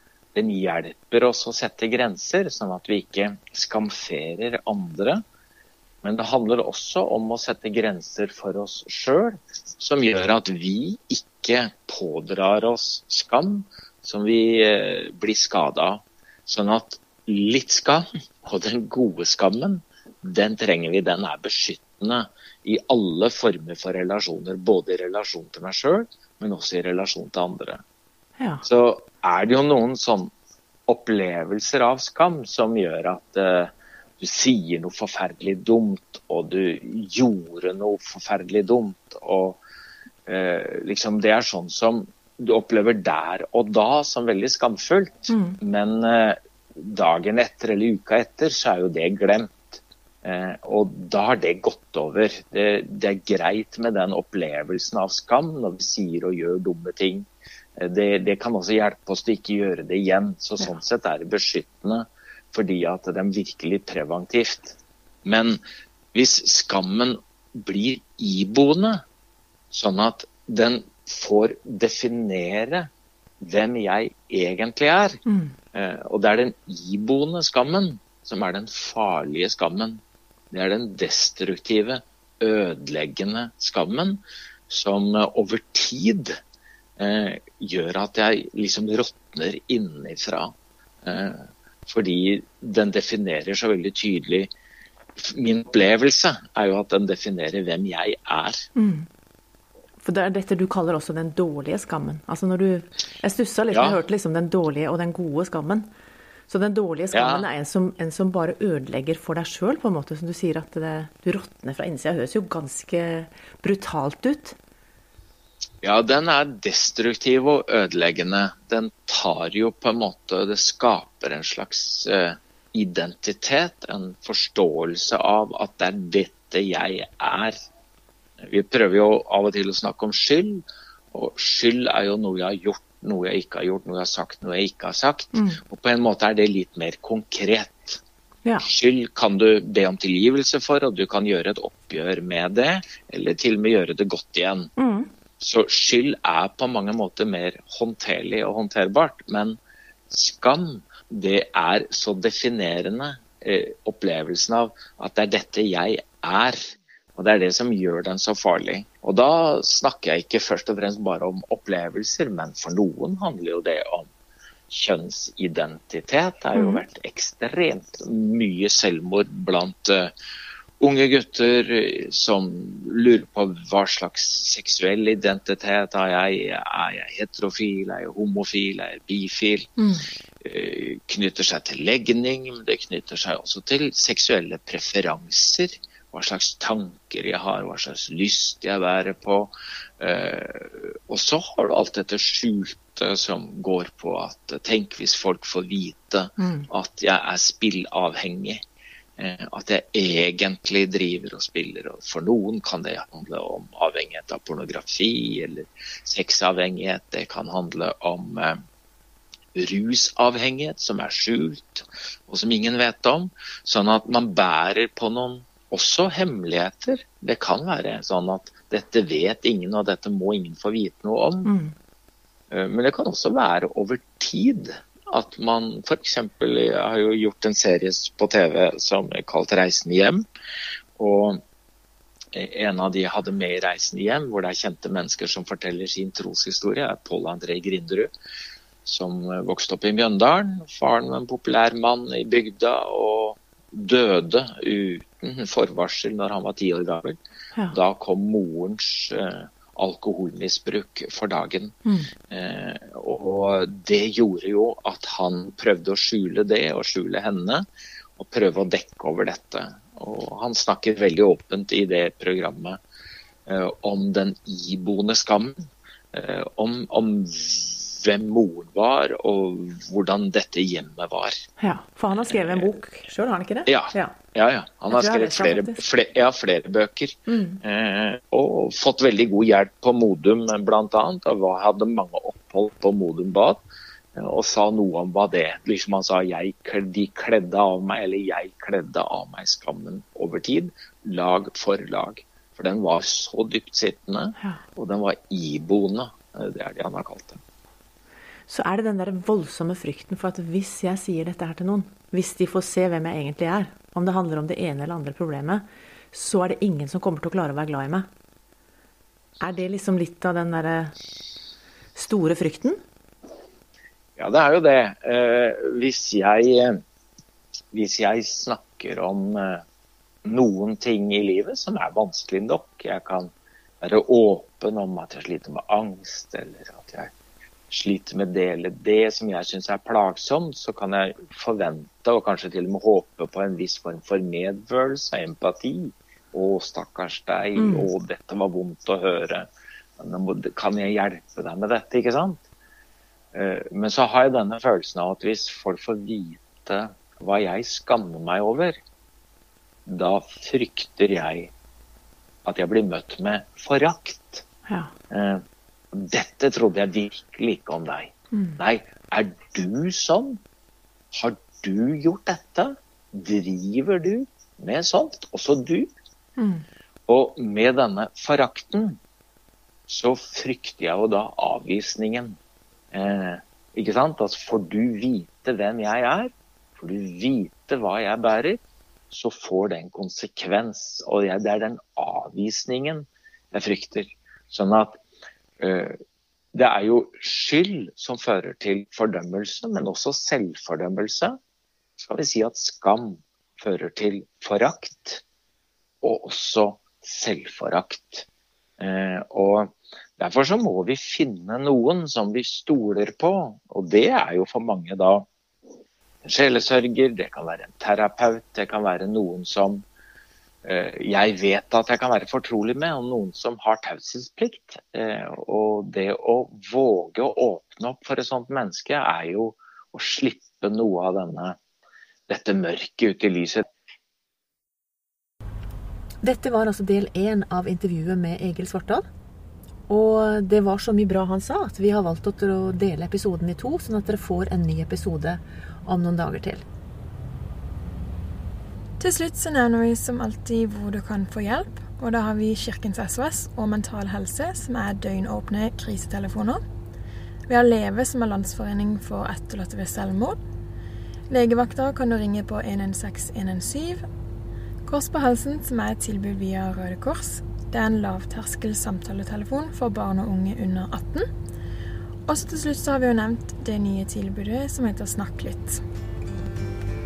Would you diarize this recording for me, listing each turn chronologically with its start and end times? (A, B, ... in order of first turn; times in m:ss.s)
0:00.4-0:05.2 A
0:06.0-0:27.8 A
0:28.4-0:28.6 B
0:28.6-0:30.3 A
0:30.9-0:39.6 A
0:40.3-1:05.6 A
0:45.3-0:45.6 B
1:06.1-1:09.0 A
1:09.7-1:12.9 A
1:13.4-1:15.2 A
1:15.2-1:15.5 B
1:15.7-1:20.0 A
1:20.5-1:26.4 A
1:27.0-1:30.5 A
1:31.0-1:34.5 A
1:35.2-1:38.7 A
1:38.8-1:39.1 B
1:40.0-1:45.9 B
1:43.7-1:44.0 A
1:46.5-1:54.6 B
1:47.1-1:47.4 A
1:55.8-2:07.6 A
2:08.4-2:18.0 A
2:15.3-2:15.6 B
2:18.6-2:24.7 A
2:24.8-2:25.1 B
2:25.4-2:29.6 A
2:30.1-2:44.1 A
2:44.7-2:50.1 A
2:46.5-2:46.8 B
2:50.8-2:59.7 A
2:59.8-3:00.0 B
3:00.4-3:18.6 A
3:16.4-3:16.7 B
3:19.2-3:28.6 A
3:29.5-3:41.5 A
3:41.4-3:41.7 B
3:42.5-3:50.2 A
3:51.0-3:51.4 A
3:52.3-3:58.1 A
3:58.8-4:07.2 A
4:07.7-4:11.8 A
4:11.8-4:12.1 B
4:12.3-4:17.7 A
4:18.2-4:22.8 A
4:23.5-4:25.5 A
4:26.1-4:31.4 A
4:31.6-4:34.2 B
4:32.2-4:32.7 A
4:33.7-4:43.6 A
4:34.9-4:35.8 B
4:37.3-4:37.6 B
4:44.2-4:57.4 A
4:58.5-5:08.1 B
5:09.4-5:10.9 B
5:12.0-5:12.8 B
5:14.2-5:16.8 A
5:17.7-5:19.6 A
5:20.2-5:27.1 A
5:27.7-5:39.5 A
5:37.6-5:37.9 B
5:40.0-5:42.4 A
5:43.3-5:48.8 A
5:49.9-5:51.5 A
5:52.4-5:54.4 A
5:54.7-5:54.9 B
5:55.1-6:00.4 A
5:58.3-5:58.6 B
6:01.1-6:05.9 A
6:06.4-6:06.6 B
6:07.1-6:09.0 A
6:09.9-6:12.4 A
6:12.9-6:25.0 A
6:25.6-6:26.0 A
6:26.5-6:31.4 A
6:32.0-6:35.2 A
6:36.0-6:38.2 A
6:38.8-6:45.2 A
6:46.2-6:49.8 A
6:50.6-7:01.6 A
7:02.3-7:03.6 A
7:06.2-7:09.0 C
7:09.9-7:16.6 C
7:19.0-7:26.6 D
7:27.5-7:30.4 D
7:31.3-7:34.0 D
7:34.8-7:41.3 D
7:42.3-7:45.8 D